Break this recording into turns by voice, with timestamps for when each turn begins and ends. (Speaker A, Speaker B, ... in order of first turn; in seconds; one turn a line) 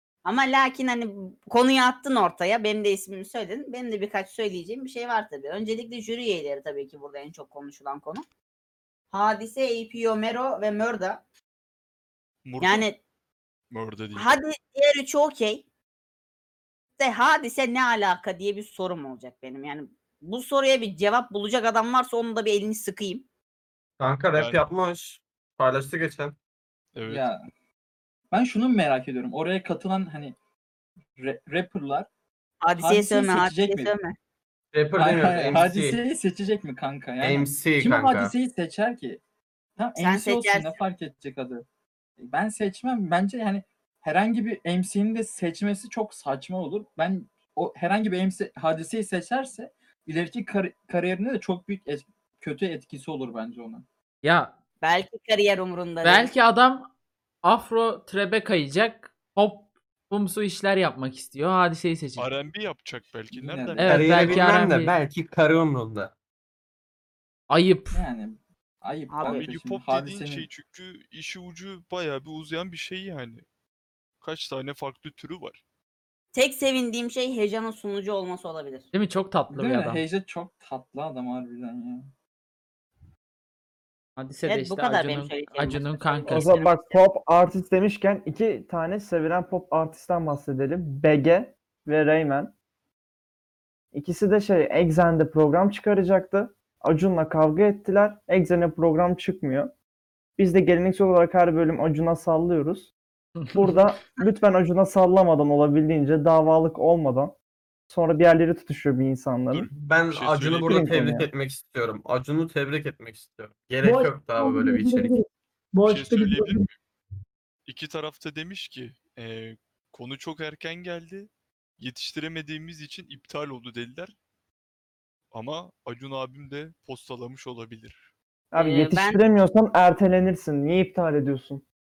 Speaker A: 0.2-8.2
Speaker A: 9.1-11.2
Speaker B: 12.4-12.9
Speaker A: 12.6-13.0
Speaker B: 13.7-14.3
Speaker A: 14.1-15.6
Speaker A: 17.0-23.2
Speaker C: 24.0-26.4
Speaker B: 24.4-24.6
Speaker B: 26.9-27.3
Speaker D: 27.1-27.5
Speaker D: 28.3-30.4
Speaker D: 31.2-32.1
Speaker A: 32.6-34.2
Speaker D: 32.8-33.9
Speaker C: 34.7-36.0
Speaker D: 35.0-39.2
Speaker C: 37.2-38.3
Speaker D: 39.8-41.6
Speaker A: 40.0-40.8
Speaker D: 42.2-53.9
Speaker E: 54.2-54.5
Speaker A: 54.8-56.3
Speaker E: 56.0-56.9
Speaker E: 57.4-62.3
Speaker B: 62.2-64.6
Speaker D: 63.3-64.1
Speaker E: 63.8-64.9
Speaker C: 63.9-66.1
Speaker E: 67.5-68.0
Speaker D: 67.9-70.5
Speaker A: 69.1-69.5
Speaker B: 69.2-73.4
Speaker B: 74.2-75.6
Speaker A: 76.3-78.9
Speaker E: 78.9-80.0
Speaker D: 79.5-82.1
Speaker E: 84.2-86.6
Speaker A: 84.5-87.0
Speaker F: 86.3-92.5
Speaker F: 93.9-99.7
Speaker F: 100.4-102.9
Speaker F: 103.5-107.3
Speaker F: 107.9-109.7
Speaker B: 109.5-110.9
Speaker C: 109.7-115.2
Speaker F: 110.6-111.3
Speaker G: 113.8-116.7
Speaker B: 115.8-116.8
Speaker B: 117.7-124.2
Speaker B: 125.3-128.1
Speaker F: 128.5-131.6
Speaker A: 128.6-129.2